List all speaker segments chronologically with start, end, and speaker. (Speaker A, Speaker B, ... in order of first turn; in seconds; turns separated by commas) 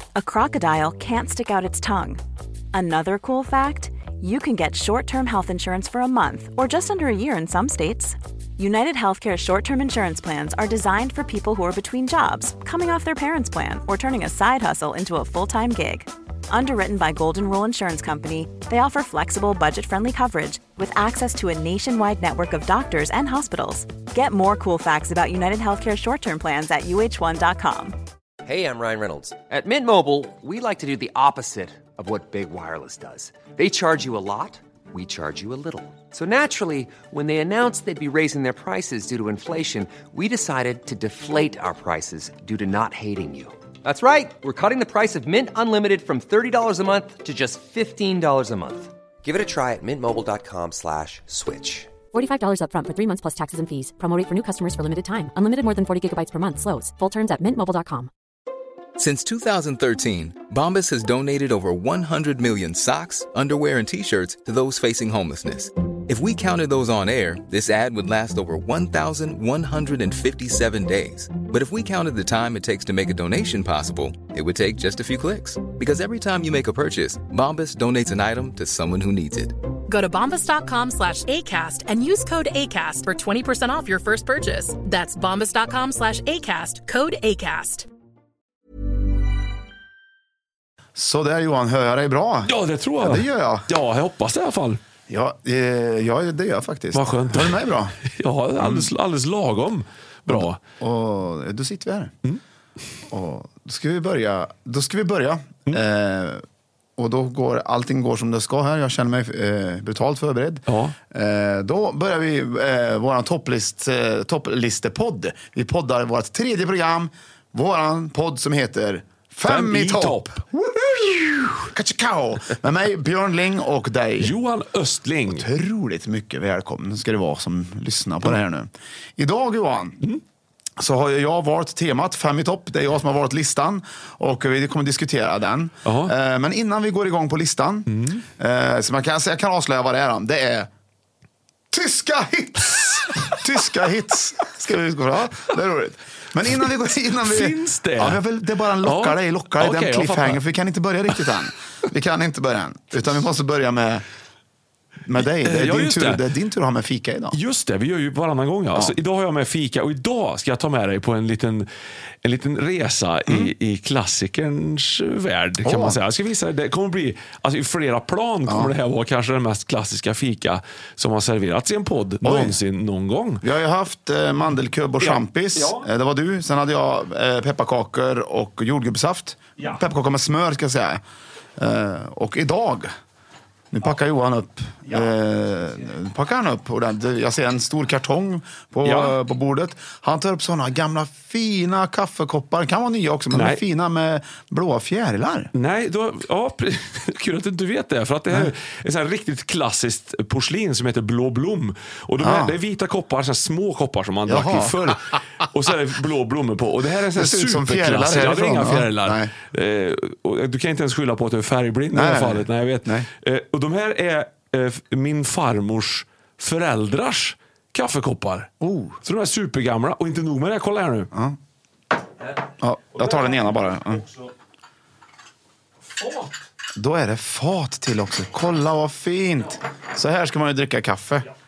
Speaker A: 0.1-2.2, Speaker A: 2.7-27.9, Speaker B: 28.4-52.0, Speaker C: 52.1-58.1, Speaker D: 59.0-79.5, Speaker E: 79.9-87.9, Speaker F: 91.0-93.7, Speaker G: 92.5-94.8, Speaker F: 95.1-98.0, Speaker G: 96.9-100.6, Speaker F: 98.6-98.9, Speaker F: 100.3-102.2, Speaker F: 103.1-106.4, Speaker F: 107.0-124.3, Speaker G: 110.7-111.0, Speaker G: 119.4-120.4, Speaker G: 124.2-125.5, Speaker F: 125.3-130.0, Speaker F: 130.8-140.7, Speaker G: 135.8-136.1, Speaker G: 137.9-138.2, Speaker F: 141.7-154.0, Speaker G: 147.2-148.2, Speaker G: 148.8-150.4, Speaker F: 155.0-157.4, Speaker G: 155.2-156.2, Speaker G: 157.3-161.7, Speaker G: 162.2-173.4, Speaker F: 163.3-163.5, Speaker F: 165.6-166.0, Speaker F: 172.2-172.6, Speaker F: 173.4-181.0, Speaker G: 175.0-175.9, Speaker F: 181.6-182.9, Speaker F: 183.7-195.5, Speaker G: 188.8-189.2, Speaker G: 193.3-193.6, Speaker G: 195.5-218.5, Speaker F: 202.2-202.6, Speaker F: 204.3-205.0, Speaker F: 207.1-209.3, Speaker F: 211.9-213.1, Speaker F: 218.6-219.0, Speaker G: 219.0-221.1, Speaker F: 221.1-221.4, Speaker F: 222.6-224.0, Speaker G: 222.9-224.3, Speaker G: 226.0-226.4, Speaker F: 226.8-231.3